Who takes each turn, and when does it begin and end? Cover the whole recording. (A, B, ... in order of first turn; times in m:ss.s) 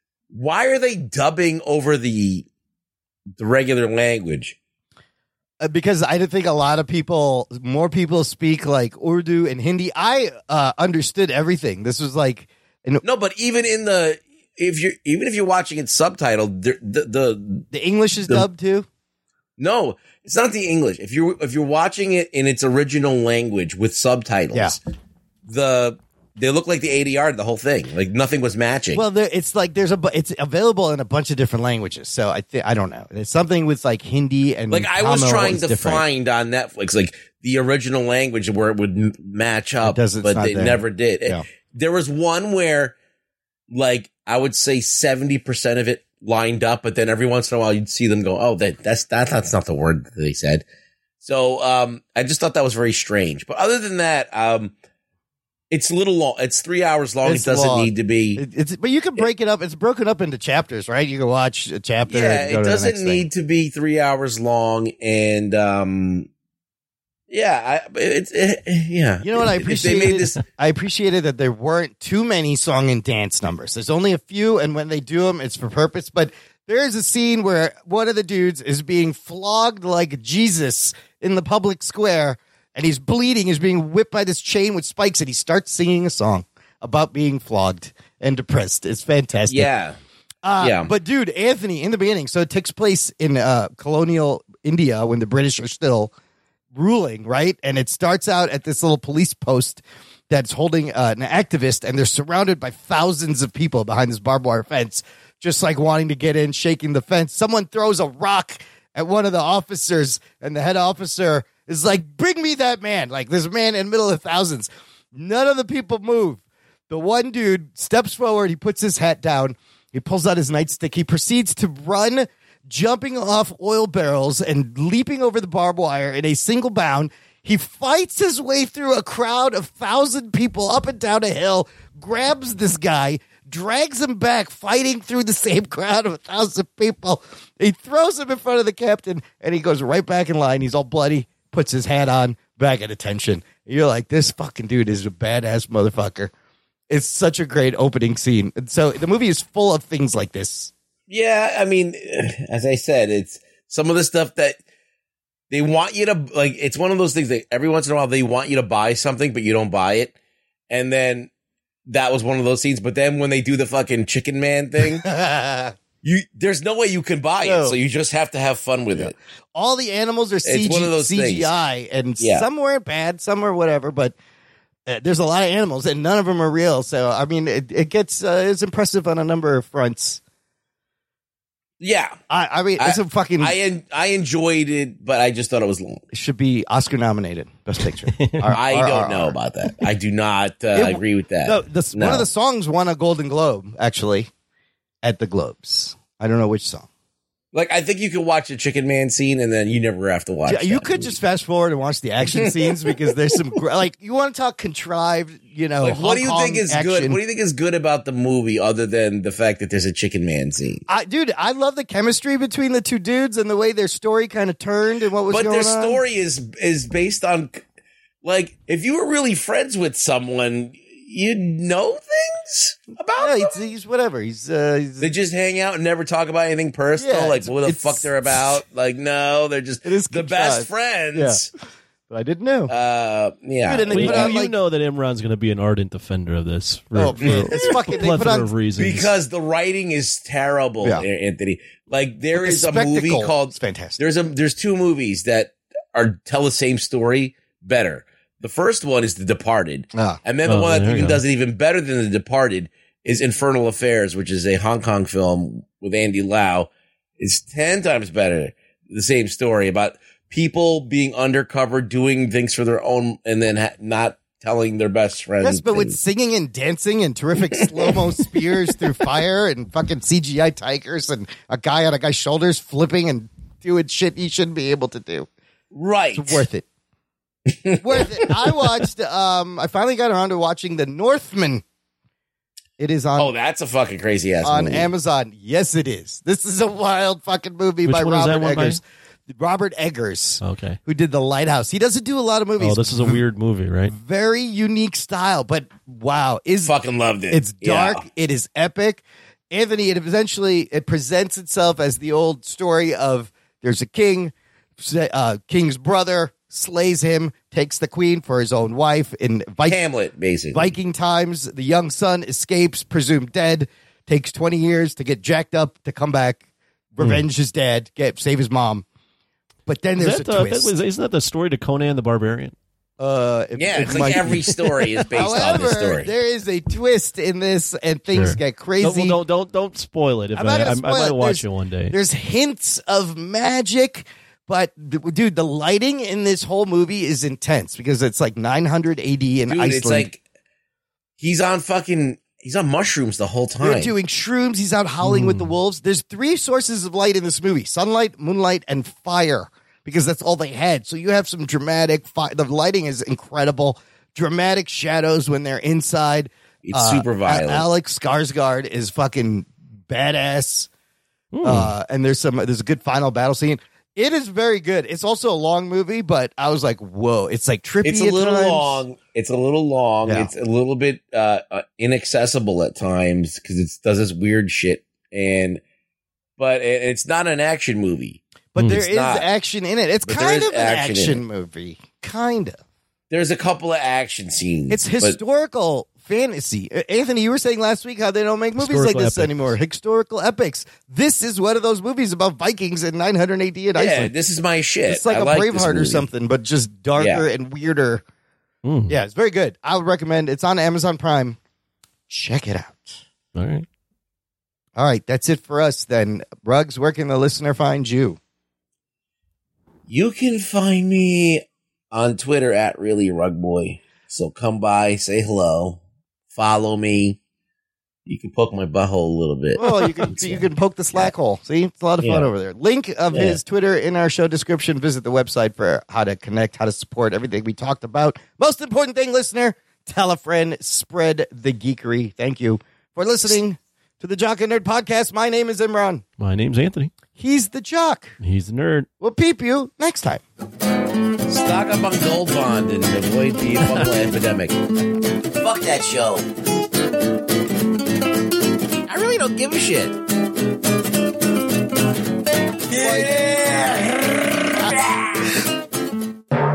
0:00.3-0:02.4 A
0:03.4-0:04.6 A
0:05.6-0:13.0 B
0:13.0-0:17.6 A
0:17.7-0:18.9 B
0:19.6-0:24.8 A
0:25.5-0:29.0 A
0:28.9-0:36.0 B
0:34.7-0:42.9 A
0:39.8-0:41.4 B
0:43.7-0:50.6 A
0:51.2-0:54.7 A
0:55.7-0:58.4 A
0:57.2-1:03.2 B
1:02.1-1:06.3 A
1:07.3-1:10.4 A
1:09.2-1:29.7 B
1:29.5-1:30.0 A
1:30.4-1:36.1 B
1:30.6-1:30.9 A
1:36.7-2:26.3 B
2:26.9-2:30.7 B
2:31.1-2:34.6 A
2:35.5-2:40.1 A
2:40.7-2:41.3 A
2:41.9-2:45.0 A
2:45.0-2:45.7 B
2:46.0-2:49.1 A
2:47.4-2:47.8 B
2:48.9-2:54.1 B
2:50.4-2:51.5 A
2:52.2-2:52.4 A
2:54.9-3:00.2 B
3:01.8-3:02.2 A
3:02.3-3:03.5 B
3:02.8-3:06.0 A
3:06.1-3:09.3 B
3:08.2-3:08.5 C
3:08.5-3:12.2 A
3:10.7-3:14.3 B
3:15.0-3:16.9 B
3:17.5-3:21.1 A
3:20.5-3:27.2 B
3:22.2-3:23.2 A
3:25.8-3:30.8 A
3:30.9-3:36.0 B
3:35.3-3:37.6 A
3:38.2-3:43.6 A
3:43.2-3:45.1 B
3:45.0-3:51.5 A
3:47.0-3:48.6 B
3:49.8-3:51.4 B
3:52.1-3:52.7 B
3:52.7-3:54.4 A
3:53.6-3:54.5 B
3:53.9-3:59.1 C
3:56.9-3:58.5 B
3:57.2-3:57.7 A
3:58.8-4:26.0 A
4:02.3-4:04.0 B
4:09.9-4:10.2 B
4:10.5-4:11.2 C
4:25.4-4:35.3 B
4:27.6-4:28.4 A
4:35.7-4:36.4 A
4:36.1-4:36.6 B
4:37.5-4:38.6 A
4:37.8-4:41.6 B
4:42.8-4:43.3 B
4:43.2-4:44.9 A
4:44.4-4:53.2 B
4:47.8-4:48.8 C
4:50.4-4:50.8 C
4:52.6-4:53.9 C
4:53.9-4:56.7 B
4:56.6-4:58.0 A
4:57.3-5:09.8 B
5:09.7-5:10.7 A
5:10.5-5:16.4 B
5:16.9-5:18.8 B
5:19.6-5:20.7 B
5:20.0-5:22.6 C
5:23.0-5:29.2 B
5:23.6-5:26.1 A
5:28.1-5:31.9 C
5:30.4-5:40.1 B
5:39.5-5:40.2 A
5:41.2-5:43.9 A
5:43.6-6:00.7 B
5:45.0-5:45.5 C
5:56.6-5:57.7 A
6:01.3-6:01.7 C
6:01.4-6:08.8 B
6:07.8-6:15.6 A
6:10.0-6:10.3 B
6:16.4-6:19.3 A
6:18.5-6:22.6 B
6:20.0-6:21.2 A
6:23.1-6:25.2 A
6:24.7-6:34.1 B
6:28.6-6:29.5 C
6:33.7-6:36.1 A
6:34.9-6:38.0 B
6:37.0-6:37.2 A
6:38.6-6:39.0 C
6:38.9-6:41.4 B
6:42.1-6:43.0 B
6:43.3-6:43.6 C
6:44.8-6:48.2 B
6:49.9-6:55.8 A
6:56.3-6:57.2 A
6:58.0-7:00.4 A
6:59.6-7:16.0 B
7:02.0-7:02.3 A
7:03.1-7:03.4 A
7:16.2-7:16.9 C
7:17.2-7:18.2 B
7:18.2-7:18.9 C
7:19.0-7:20.2 B
7:21.3-7:24.6 A
7:25.3-7:26.3 A
7:28.8-7:30.0 A
7:32.6-7:35.3 A